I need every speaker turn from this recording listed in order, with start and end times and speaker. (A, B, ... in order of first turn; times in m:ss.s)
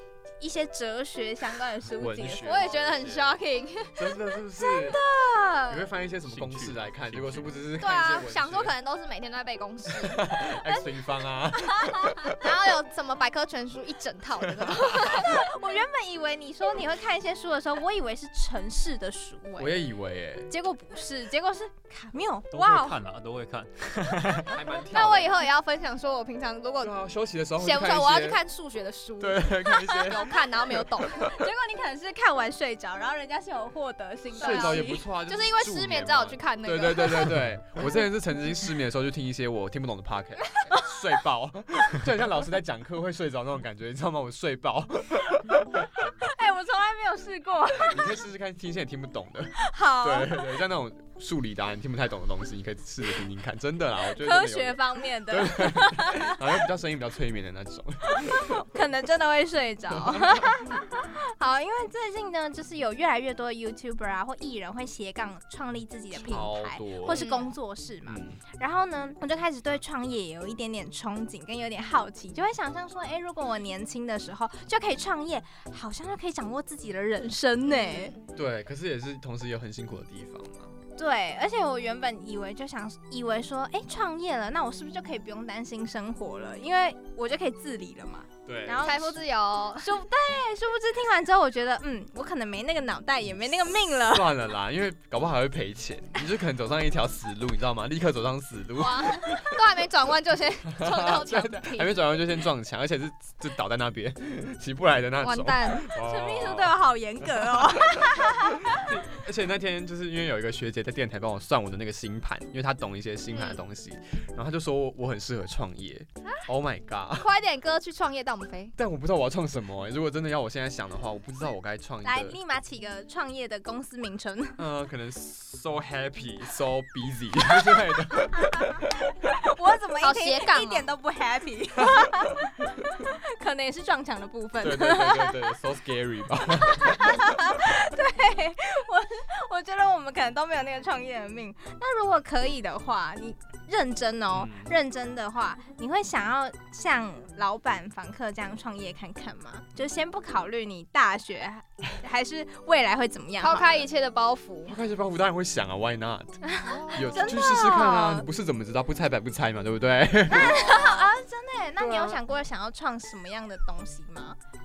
0:00.4-0:02.5 A
0:02.0-0:03.4 B
0:02.4-0:04.4 C
0:04.0-0:05.0 B
0:04.6-0:05.9 A
0:05.7-0:08.7 B
0:06.2-0:07.6 D
0:07.8-0:10.4 C
0:09.9-0:12.4 B
0:11.8-0:12.2 A
0:12.3-0:15.5 C
0:14.6-0:15.3 B
0:14.7-0:19.8 A
0:19.6-0:20.5 B
0:20.5-0:23.0 A
0:22.5-0:24.6 D
0:24.4-0:25.5 B
0:24.9-0:27.0 C
0:26.8-0:28.4 B
0:27.6-0:31.4 C
0:29.2-0:30.8 B
0:31.2-0:35.0 A
0:34.4-0:37.4 C
0:34.4-0:45.8 B
0:46.2-0:48.1 A
0:47.9-0:58.6 B
0:49.6-0:50.4 A
0:54.1-0:56.4 A
0:58.2-1:18.1 A
1:00.2-1:00.4 B
1:06.1-1:07.2 B
1:07.1-1:07.5 C
1:08.1-1:08.4 B
1:17.7-1:18.2 C
1:18.3-1:20.7 B
1:21.0-1:29.2 A
1:28.5-1:28.9 B
1:28.8-1:29.9 C
1:29.8-1:34.3 A
1:34.1-1:39.5 B
1:38.8-1:41.9 C
1:40.8-1:57.3 B
1:45.2-1:45.9 C
1:45.9-1:48.8 A
1:53.3-1:53.6 C
1:57.2-1:58.8 C
1:58.8-2:02.4 B
2:02.0-2:04.6 A
2:04.6-2:09.3 B
2:09.5-2:15.4 A
2:10.0-2:10.9 C
2:14.6-2:17.2 B
2:16.7-2:33.8 A
2:24.3-2:24.8 B
2:33.4-2:34.8 C
2:34.7-2:40.8 B
2:36.4-2:38.3 A
2:36.7-2:37.2 C
2:40.3-2:41.1 C
2:40.3-2:44.4 A
2:41.8-2:42.2 B